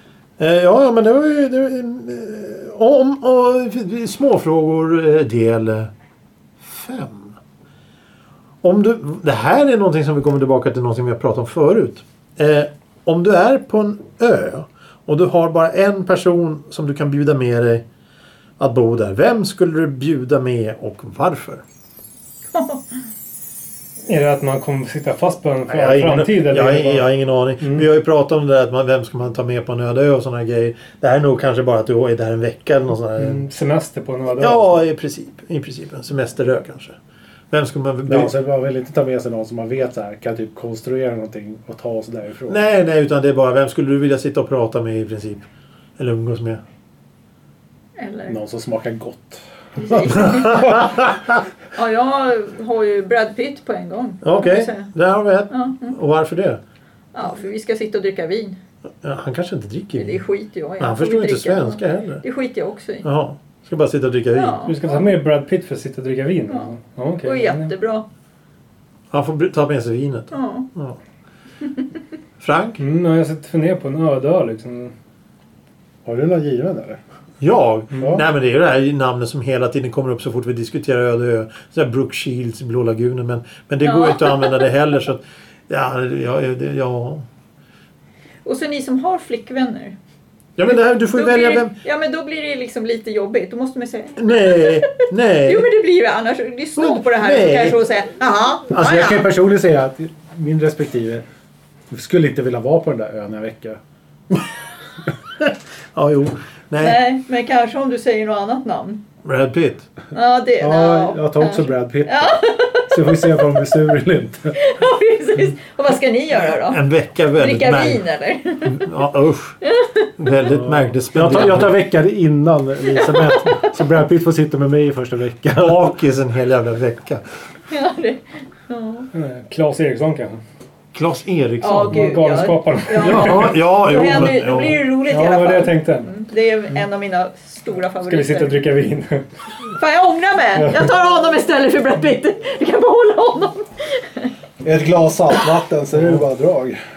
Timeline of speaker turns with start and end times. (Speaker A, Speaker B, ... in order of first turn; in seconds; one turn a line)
Speaker A: 0.4-5.9
Speaker A: 6.6-7.3
Speaker A: 8.6-17.8
Speaker A: 18.6-21.6
Speaker B: 22.5-22.9
Speaker C: 24.1-27.1
Speaker A: 25.7-33.4
Speaker C: 27.6-27.9
Speaker C: 33.2-34.7
Speaker A: 34.4-37.0
Speaker A: 37.5-38.3
Speaker D: 38.0-42.6
Speaker A: 42.5-45.4
Speaker A: 46.0-46.6
Speaker B: 48.0-48.4
Speaker D: 48.3-49.4
Speaker B: 49.8-50.9
Speaker A: 50.0-51.4
Speaker B: 51.7-54.9
Speaker A: 54.2-56.6
Speaker B: 55.5-55.9
Speaker B: 57.1-58.6
Speaker A: 59.0-60.2
Speaker B: 60.0-63.1
Speaker A: 60.8-62.2
Speaker A: 63.0-64.7
Speaker B: 64.3-65.1
Speaker C: 64.6-67.7
Speaker B: 66.5-66.7
Speaker B: 67.2-68.0
Speaker A: 69.1-71.0
Speaker B: 70.3-70.7
Speaker A: 72.4-72.8
Speaker C: 72.8-74.9
Speaker D: 76.0-77.0
Speaker A: 77.4-87.2
Speaker D: 78.0-78.2
Speaker B: 83.8-84.5
Speaker B: 88.4-90.0
Speaker A: 90.6-91.7
Speaker B: 90.7-99.2
Speaker A: 94.2-95.7
Speaker A: 96.8-97.8
Speaker D: 98.7-101.2
Speaker D: 101.9-103.8
Speaker A: 105.4-107.0
Speaker B: 106.8-109.0
Speaker A: 109.2-109.8
Speaker B: 110.1-113.2
Speaker D: 110.6-114.5
Speaker B: 114.5-116.8
Speaker A: 116.6-118.0
Speaker B: 117.3-118.8
Speaker A: 118.6-119.6
Speaker B: 119.6-120.1
Speaker A: 120.2-121.7
Speaker D: 120.5-125.9
Speaker B: 122.9-123.7
Speaker A: 125.5-127.2
Speaker B: 127.7-129.1
Speaker C: 129.1-130.4
Speaker A: 130.9-132.4
Speaker B: 131.6-138.7
Speaker C: 131.9-133.6
Speaker A: 133.0-134.8
Speaker C: 135.1-136.1
Speaker C: 138.0-139.2
Speaker B: 139.7-144.3
Speaker C: 140.6-140.9
Speaker D: 144.6-146.8